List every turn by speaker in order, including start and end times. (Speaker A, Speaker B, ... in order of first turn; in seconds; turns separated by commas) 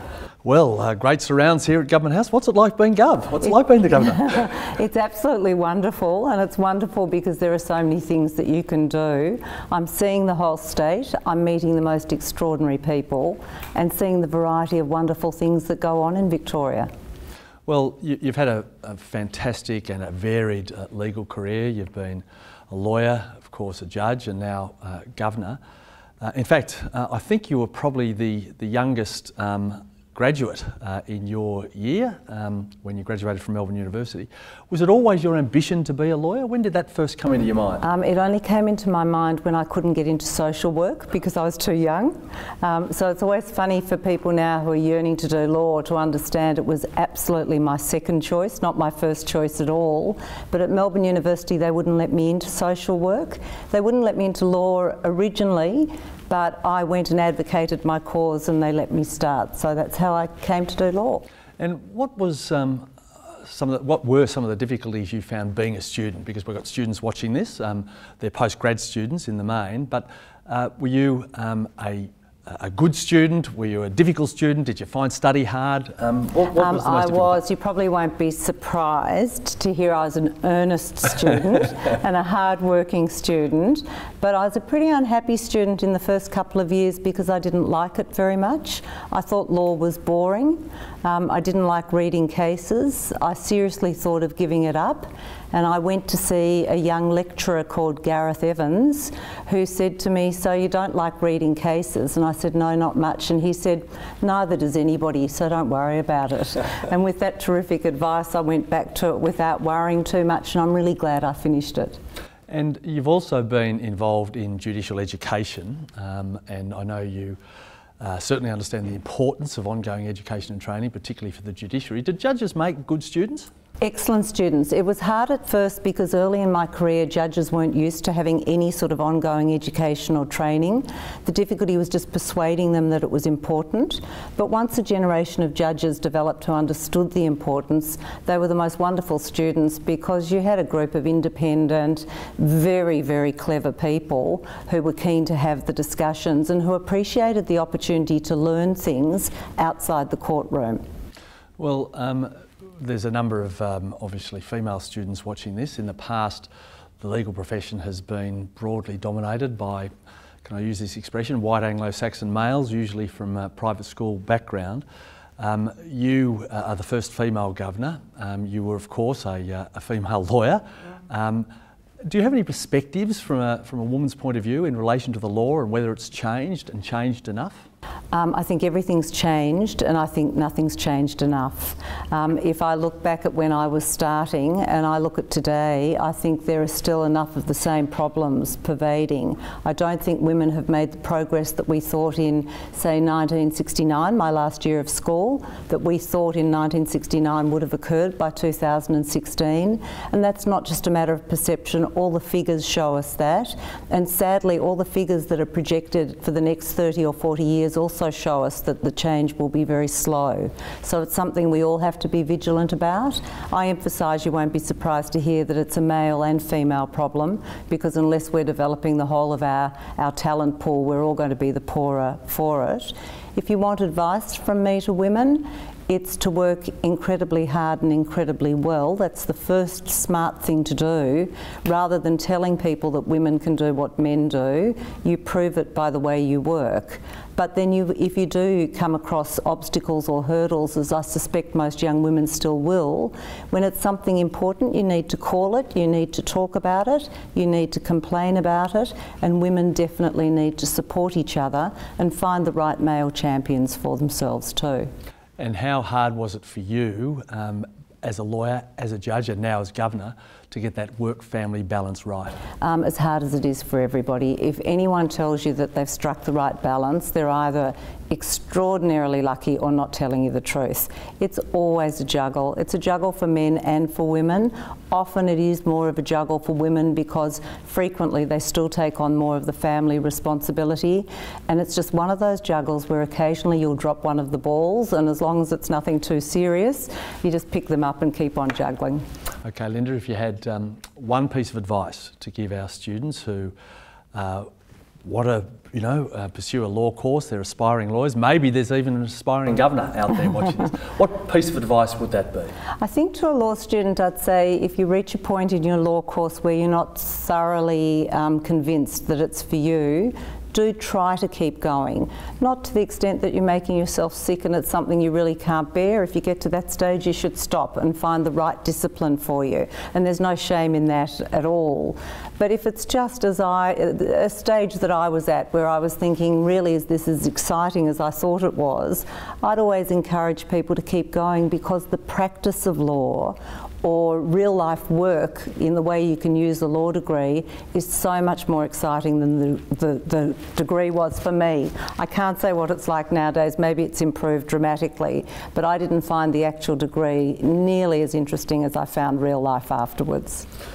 Speaker A: 0.4-4.5, Speaker B: 3.9-16.9, Speaker A: 17.7-25.6, Speaker A: 26.2-37.8, Speaker B: 37.8-61.2, Speaker A: 61.6-62.9, Speaker A: 63.4-77.4, Speaker B: 76.5-112.0, Speaker A: 112.5-117.4, Speaker A: 118.0-123.5, Speaker B: 123.8-150.8, Speaker A: 151.6-156.5, Speaker A: 157.0-159.9, Speaker A: 160.4-164.8, Speaker A: 165.4-171.5, Speaker A: 172.0-177.6, Speaker B: 178.1-254.9, Speaker A: 255.4-262.4, Speaker B: 262.6-289.0, Speaker A: 289.4-293.5, Speaker A: 294.1-294.5, Speaker A: 295.0-302.5, Speaker B: 302.8-350.4